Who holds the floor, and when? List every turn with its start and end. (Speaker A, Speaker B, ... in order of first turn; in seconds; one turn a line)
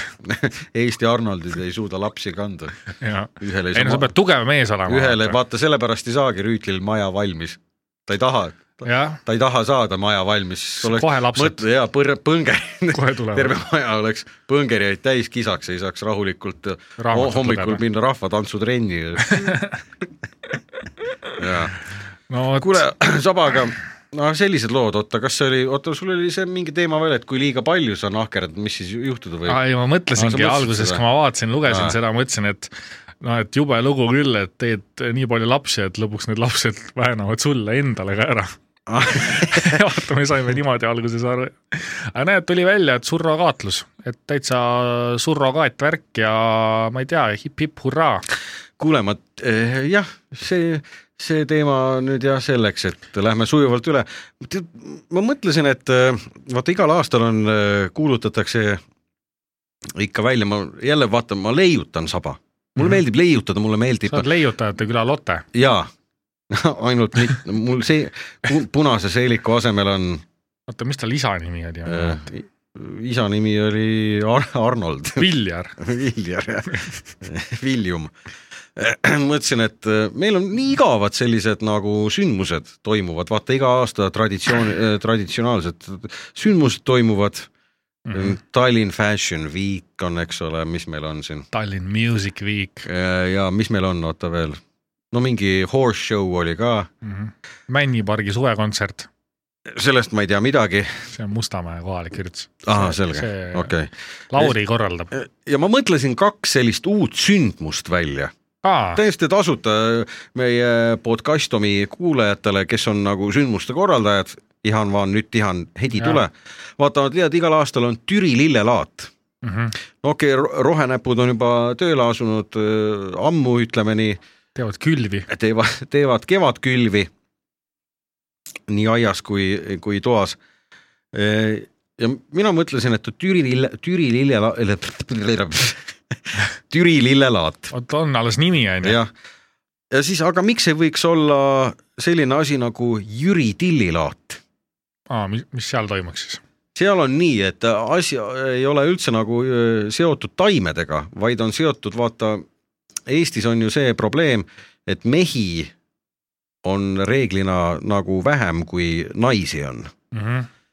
Speaker A: 0.2-2.8
Speaker B: 3.0-5.4
Speaker A: 3.4-4.1
Speaker A: 4.9-19.6
Speaker B: 8.8-9.2
Speaker B: 10.8-11.6
Speaker B: 12.9-13.6
Speaker B: 17.0-17.8
Speaker B: 19.2-19.8
Speaker A: 21.4-21.8
Speaker B: 22.3-22.9
Speaker A: 22.6-29.6
Speaker B: 29.5-48.2
Speaker A: 30.2-31.0
Speaker A: 31.7-32.0
Speaker A: 38.9-39.8
Speaker A: 48.8-58.8
Speaker A: 60.0-64.3
Speaker B: 64.1-65.5
Speaker A: 65.5-65.9
Speaker A: 66.5-70.2
Speaker B: 70.7-72.2
Speaker A: 71.9-75.3
Speaker B: 75.2-75.8
Speaker A: 75.8-78.1
Speaker A: 78.8-87.5
Speaker B: 88.1-88.4
Speaker A: 88.1-91.5
Speaker B: 91.5-92.9
Speaker A: 92.9-94.6
Speaker A: 95.1-96.9
Speaker B: 97.0-99.1
Speaker A: 99.7-101.0
Speaker B: 101.1-103.7
Speaker A: 102.6-104.5
Speaker B: 104.3-105.1
Speaker A: 105.1-108.3
Speaker B: 108.6-109.0
Speaker A: 109.0-119.1
Speaker B: 119.4-119.8
Speaker A: 120.0-124.2
Speaker B: 124.6-125.3
Speaker A: 125.3-127.1
Speaker A: 128.7-130.4
Speaker A: 131.1-137.7
Speaker B: 137.7-139.0
Speaker A: 138.8-139.1
Speaker A: 139.9-144.4
Speaker B: 145.1-146.4
Speaker A: 146.8-152.4
Speaker A: 153.1-155.7
Speaker A: 156.6-159.9
Speaker B: 160.1-160.5